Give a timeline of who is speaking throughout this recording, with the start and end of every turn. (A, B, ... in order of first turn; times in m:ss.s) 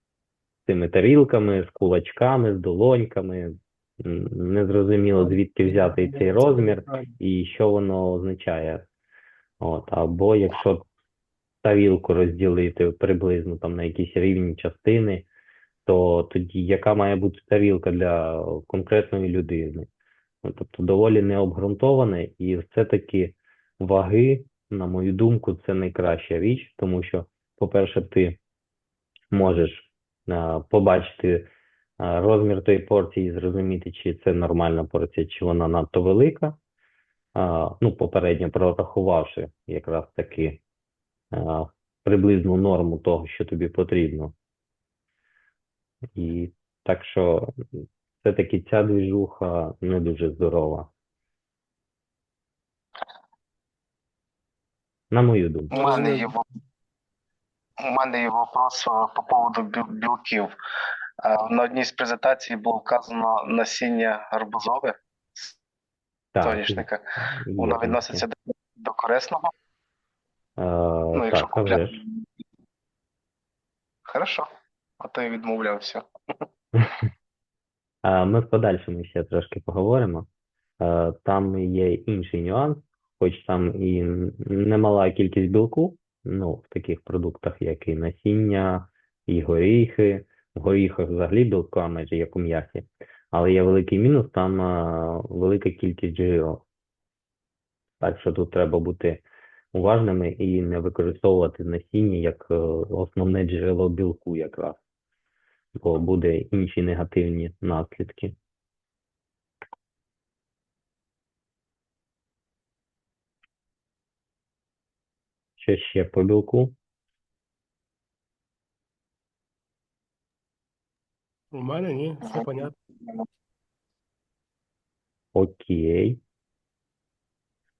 0:00.6-0:08.8 A
0:05.1-0:07.1 B
0:09.6-0:10.8 A
0:11.6-0:15.3 A
0:15.8-0:19.9 A
0:20.4-0:28.4 A
0:29.3-0:31.5 A
0:32.0-0:36.5 A
0:37.3-0:40.6 A
0:41.3-0:44.3 A
0:46.1-0:47.5 A
0:48.2-0:50.9 A
0:55.1-0:55.7 A
0:55.7-0:56.3 B
0:55.7-0:56.4 C
0:57.8-1:00.5 C
1:01.2-1:05.5 C
1:06.3-1:08.2 A
1:06.4-1:07.0 C
1:07.6-1:09.5 C
1:10.6-1:12.0 A
1:11.1-1:12.0 C
1:14.1-1:14.5 C
1:15.0-1:16.0 C
1:18.0-1:20.2 A
1:20.8-1:36.6 A
1:38.0-1:39.2 A
1:39.7-1:44.8 A
1:45.8-1:48.3 A
1:55.6-1:56.7 A
2:01.5-2:02.7 B
2:05.3-2:06.2 A